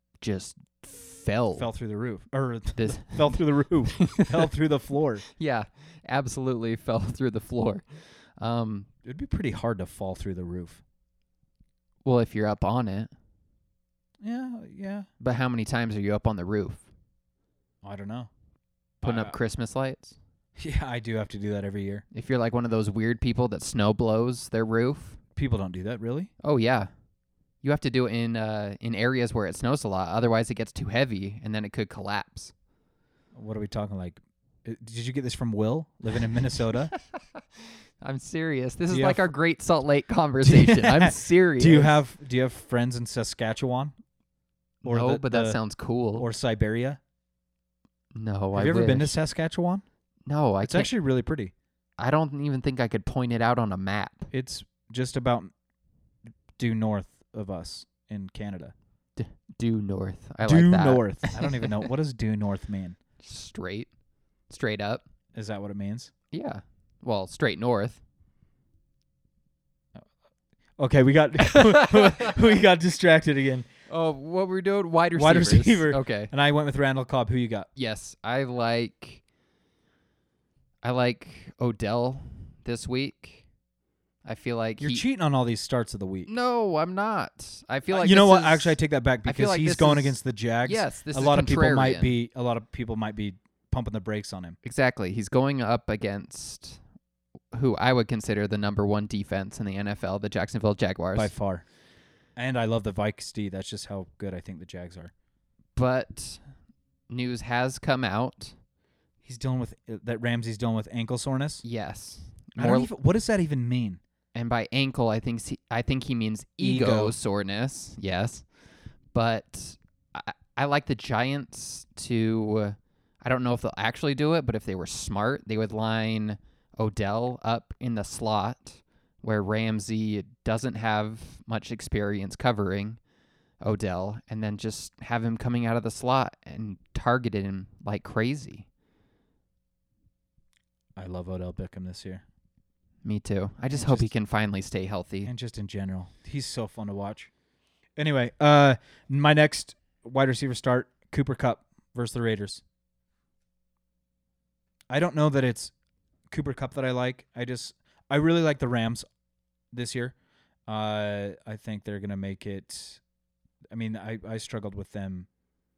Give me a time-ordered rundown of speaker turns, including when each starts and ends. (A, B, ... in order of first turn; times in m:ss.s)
0:00.2-0:01.7 A
0:01.6-0:05.2 B
0:02.8-0:03.4 A
0:04.0-0:04.5 A
0:05.3-0:07.9 A
0:08.4-0:08.9 A
0:09.0-0:10.8 B
0:12.0-0:13.1 A
0:14.2-0:15.1 B
0:15.2-0:16.9 A
0:17.8-0:18.3 B
0:19.0-0:19.4 B
0:19.0-0:20.2 A
0:20.6-0:22.0 B
0:22.1-0:25.2 A
0:25.4-0:26.3 B
0:26.4-0:26.9 A
0:27.6-0:32.5 A
0:33.3-0:36.9 B
0:38.0-0:41.9 A
0:38.9-0:39.3 B
0:40.4-0:44.0 B
0:44.8-0:45.6 B
0:44.8-0:46.3 A
0:46.2-0:47.0 B
0:48.1-0:49.2 A
0:48.5-0:49.8 B
0:50.3-0:50.9 A
0:50.6-0:51.5 B
0:52.0-0:54.3 A
0:54.3-0:55.5 B
0:56.6-0:58.7 B
0:59.2-1:01.8 A
1:00.4-1:03.0 B
1:03.2-1:03.9 A
1:04.5-1:05.0 A
1:05.3-1:06.1 B
1:06.3-1:08.0 A
1:10.8-1:13.7 B
1:11.5-1:12.3 A
1:13.9-1:16.3 A
1:15.2-1:17.7 B
1:17.8-1:19.2 A
1:20.8-1:23.4 A
1:24.2-1:25.0 A
1:24.8-1:26.3 B
1:26.3-1:32.1 A
1:27.9-1:34.6 B
1:34.6-1:36.8 A
1:37.5-1:41.3 A
1:41.2-1:41.6 B
1:42.4-1:45.1 B
1:45.8-1:46.4 A
1:47.1-1:48.6 A
1:49.2-1:51.6 B
1:51.6-1:52.9 A
1:52.6-1:54.0 B
1:54.3-1:58.5 A
1:56.6-1:57.2 B
1:59.1-2:13.0 A
2:13.6-2:18.7 A
2:21.0-2:22.2 B
2:23.0-2:25.3 A
2:23.7-2:24.1 B
2:25.2-2:27.3 B
2:28.0-2:32.6 B
2:34.9-2:35.7 B
2:36.3-2:39.1 B
2:39.7-2:40.2 B
2:40.7-2:43.0 B
2:43.7-2:45.3 B